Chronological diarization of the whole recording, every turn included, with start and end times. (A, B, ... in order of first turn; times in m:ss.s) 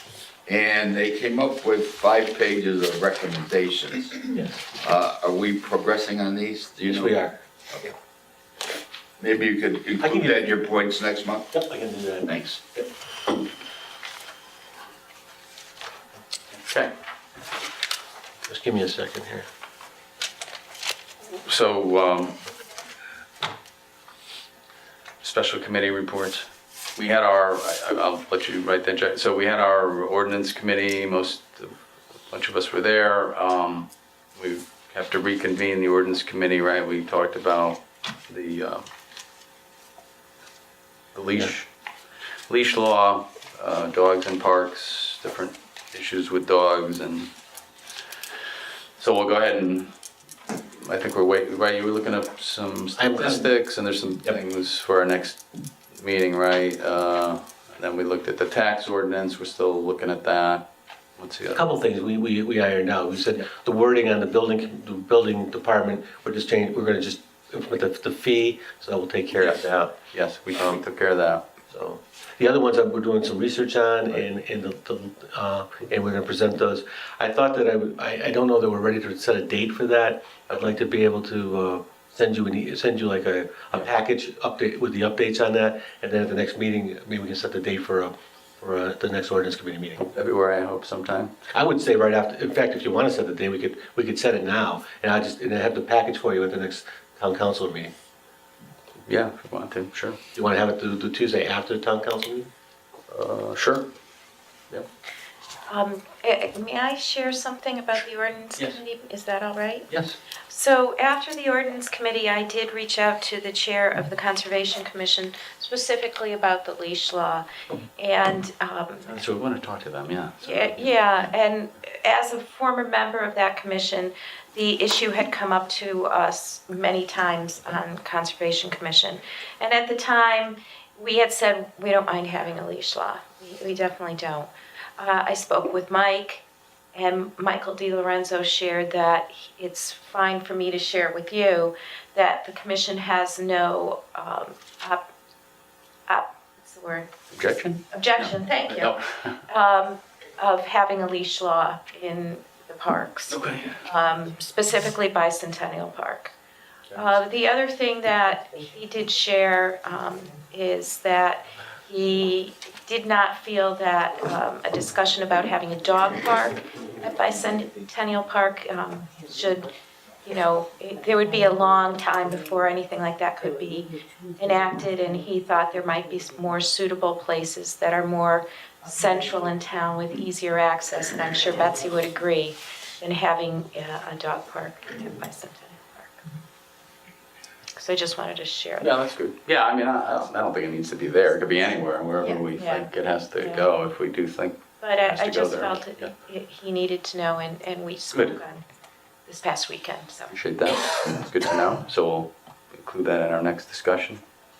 0:00.4-0:04.2 A
0:04.3-0:04.6 B
0:04.8-0:07.1 A
0:06.8-0:07.4 B
0:09.2-0:11.5 A
0:10.0-0:10.5 B
0:11.5-0:12.8 B
0:12.2-0:12.6 A
0:16.5-0:16.9 C
0:18.5-0:19.4 B
0:21.4-0:22.4 C
0:25.2-0:31.7 C
0:32.3-0:38.8 C
0:41.1-0:41.7 C
0:42.5-0:47.3 C
0:49.0-0:49.9 C
0:50.8-0:55.4 C
0:53.0-0:53.5 B
0:55.9-1:00.6 C
1:01.2-1:01.6 C
1:01.5-1:10.0 B
1:09.3-1:11.4 C
1:10.5-1:10.8 B
1:11.7-1:30.1 B
1:30.1-1:31.3 C
1:31.5-1:37.9 B
1:39.0-1:40.2 C
1:40.3-1:42.5 B
1:43.1-1:43.9 C
1:45.7-1:49.9 D
1:49.9-1:50.2 C
1:50.5-1:57.4 D
1:58.0-1:59.2 D
1:59.1-2:00.9 C
2:00.4-2:25.1 D
2:26.1-2:27.1 D
2:27.3-2:29.4 C
2:27.9-2:29.0 D
2:29.5-2:36.3 D
2:33.3-2:33.8 C
2:36.9-2:49.7 D
2:50.2-3:06.2 D
3:07.7-3:08.9 D
3:08.8-3:16.1 C
3:12.2-3:13.7 D
3:14.8-3:18.6 D
3:19.2-3:20.3 D
3:20.3-3:24.2 C